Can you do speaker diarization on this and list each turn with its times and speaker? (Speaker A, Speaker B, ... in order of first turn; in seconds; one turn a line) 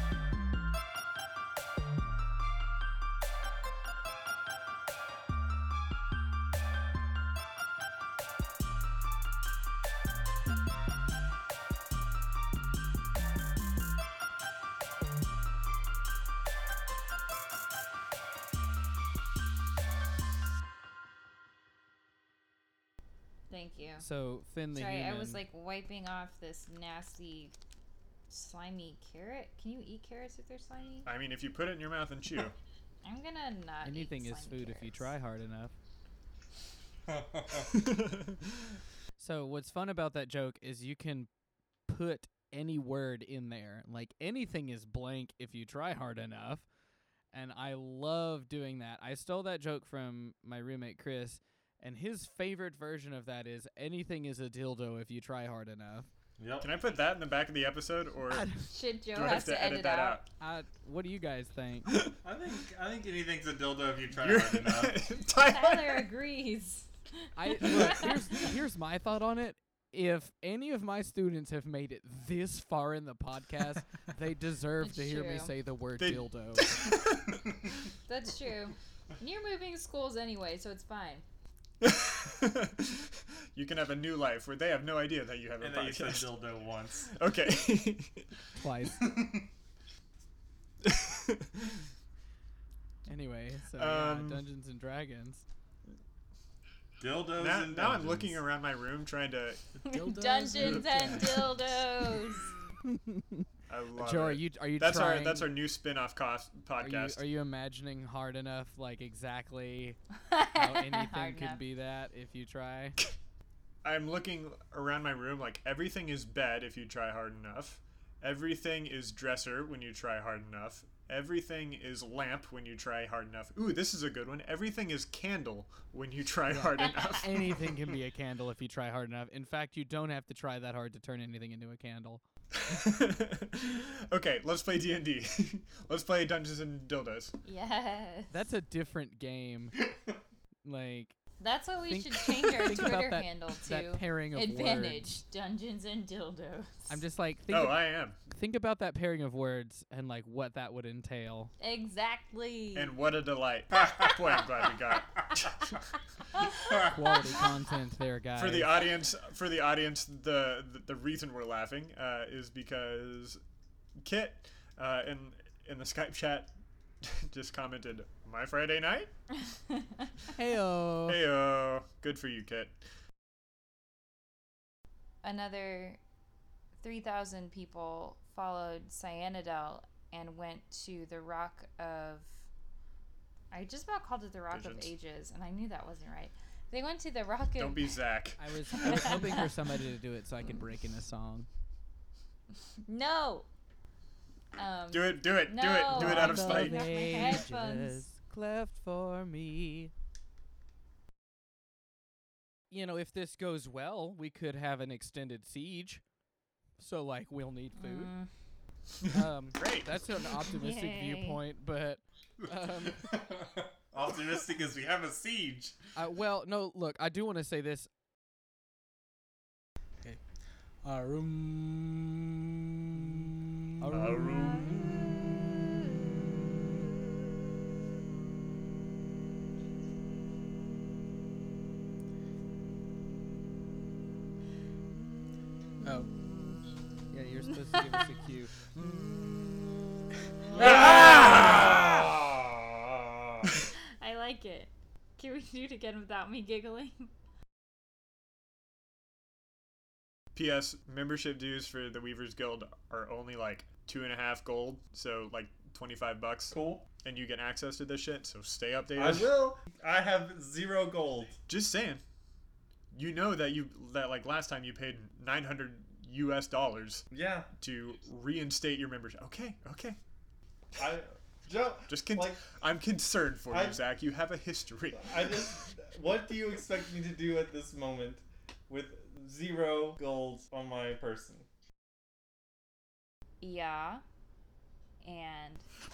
Speaker A: 23.5-24.0
Speaker B: 24.0-25.4
Speaker A: 24.7-27.5
Speaker A: 28.3-31.1
Speaker C: 31.1-32.5
Speaker A: 33.0-35.1
Speaker B: 33.8-35.7
Speaker D: 37.1-37.7
Speaker C: 37.7-38.4
Speaker B: 39.2-41.3
Speaker B: 41.9-46.7
Speaker B: 47.3-56.1
Speaker D: 56.4-56.7
Speaker C: 56.6-58.5
Speaker B: 58.3-58.7
Speaker A: 58.7-60.2
Speaker C: 59.1-60.3
Speaker B: 60.4-61.9
Speaker D: 62.2-65.0
Speaker C: 64.1-66.0
Speaker A: 65.4-68.4
Speaker B: 67.3-76.8
Speaker C: 67.7-68.1
Speaker A: 74.8-75.5
Speaker C: 76.0-77.5
Speaker A: 78.1-81.2
Speaker C: 81.8-86.3
Speaker D: 85.6-87.1
Speaker C: 87.2-88.4
Speaker B: 88.5-89.1
Speaker D: 89.0-89.5
Speaker C: 90.8-91.8
Speaker B: 93.0-95.5
Speaker C: 93.8-94.4
Speaker D: 97.0-98.4
Speaker C: 97.4-99.6
Speaker E: 99.8-101.5
Speaker A: 99.9-102.5
Speaker B: 102.9-105.5
Speaker C: 103.7-107.2
Speaker B: 106.8-110.0
Speaker A: 110.3-111.6
Speaker B: 110.5-113.0
Speaker C: 113.8-128.0
Speaker B: 126.5-132.2
Speaker C: 132.6-137.4
Speaker A: 137.4-138.4
Speaker B: 138.3-139.7
Speaker B: 140.6-141.2
Speaker A: 141.4-147.0
Speaker B: 141.9-145.0
Speaker B: 146.9-151.5
Speaker C: 147.5-148.2
Speaker A: 151.6-152.9
Speaker C: 152.7-156.4
Speaker A: 156.3-156.6
Speaker B: 156.8-158.8
Speaker C: 158.4-163.4
Speaker C: 164.0-169.2
Speaker B: 170.3-171.2
Speaker C: 171.1-172.8
Speaker A: 175.2-176.0
Speaker A: 176.8-182.5
Speaker A: 183.5-187.9
Speaker C: 184.5-184.9
Speaker C: 187.6-189.4
Speaker B: 188.4-191.5
Speaker A: 192.8-193.5
Speaker A: 194.6-198.1
Speaker C: 194.9-196.9
Speaker B: 195.9-199.9
Speaker B: 202.7-206.1
Speaker B: 206.8-208.4
Speaker A: 207.8-208.3
Speaker B: 209.1-213.1
Speaker C: 209.6-210.1
Speaker A: 210.6-211.4
Speaker D: 213.0-215.9
Speaker B: 215.9-217.9
Speaker E: 220.0-222.3
Speaker B: 223.8-224.6
Speaker E: 223.8-225.2
Speaker C: 223.9-224.7
Speaker E: 235.8-236.1
Speaker B: 237.1-238.5
Speaker C: 238.7-239.1
Speaker C: 240.5-243.5
Speaker B: 240.6-241.7
Speaker A: 243.9-247.1
Speaker C: 250.3-259.3
Speaker D: 256.5-256.8
Speaker D: 258.9-261.4
Speaker C: 261.5-262.0
Speaker C: 262.9-270.0
Speaker D: 267.1-267.5
Speaker D: 270.8-272.5
Speaker C: 271.9-275.5
Speaker D: 273.5-273.8
Speaker D: 274.9-281.5
Speaker A: 283.4-284.0
Speaker A: 285.0-285.7